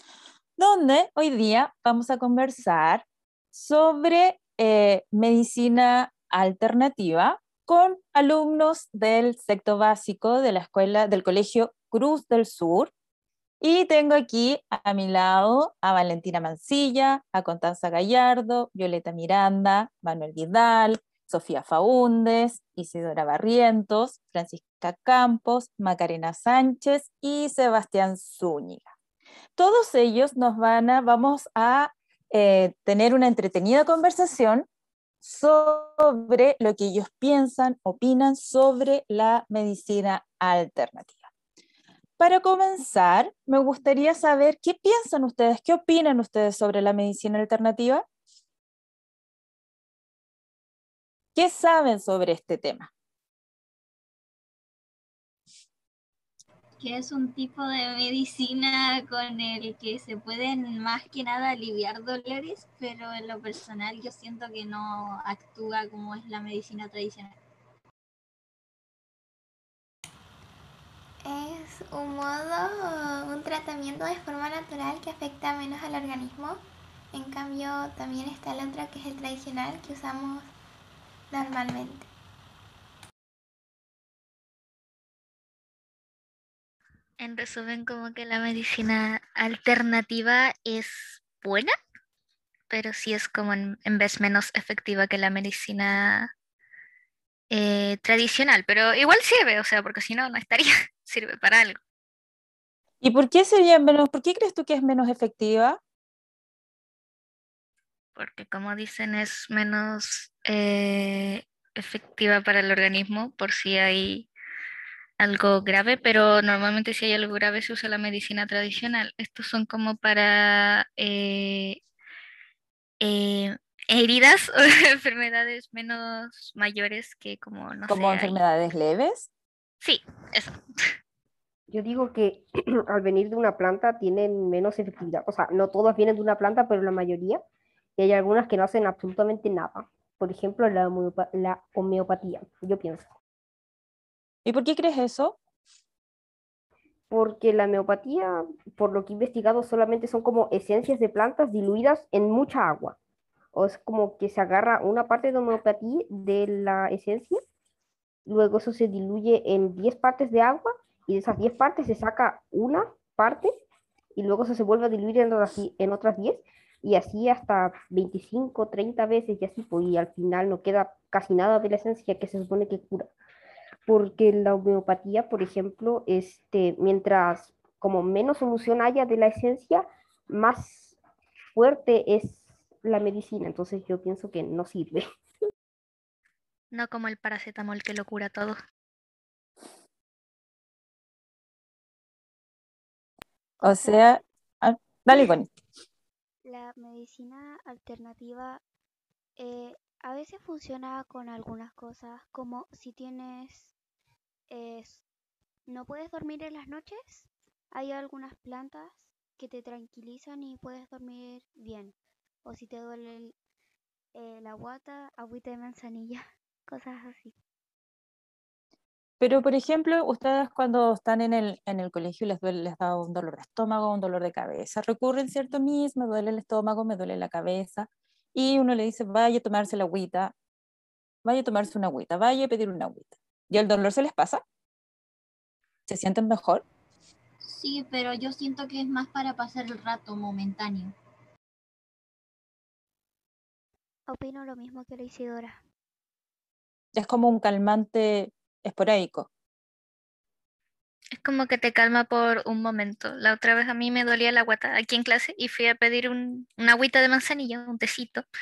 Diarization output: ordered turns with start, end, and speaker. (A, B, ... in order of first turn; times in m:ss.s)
0:00.6-0:12.9 A
0:13.6-0:28.9 A
0:29.6-0:34.6 A
0:35.2-0:41.3 A
0:42.2-0:48.0 A
0:51.3-0:52.9 A
0:56.8-1:07.3 B
1:11.2-1:16.6 C
1:17.1-1:20.5 C
1:21.3-1:22.1 C
1:27.2-1:31.7 D
1:32.7-1:36.3 D
1:37.5-1:41.8 D
1:43.0-1:45.8 A
1:48.2-1:54.3 D
1:55.2-2:01.8 D
2:03.0-2:08.4 D
2:07.9-2:09.3 A
2:09.8-2:10.6 D
2:11.7-2:17.4 E
2:18.0-2:23.0 E
2:24.4-2:25.4 A
2:27.1-2:33.0 E
2:33.5-2:37.4 E
2:38.2-2:43.5 E
2:44.2-2:53.1 E
2:53.9-3:01.0 E
3:01.5-3:05.0 E
3:06.7-3:08.6 D
3:13.6-3:14.2 F
3:13.6-3:15.5 A
3:16.4-3:18.6 F
3:19.4-3:23.7 F
3:24.5-3:25.0 F
3:25.7-3:33.3 F
3:34.1-3:37.3 F
3:39.2-3:50.3 A
3:51.2-3:54.4 A
3:55.9-3:56.6 A
3:57.4-4:00.9 B
4:04.1-4:05.6 F
4:06.9-4:09.3 A
4:11.2-4:18.2 D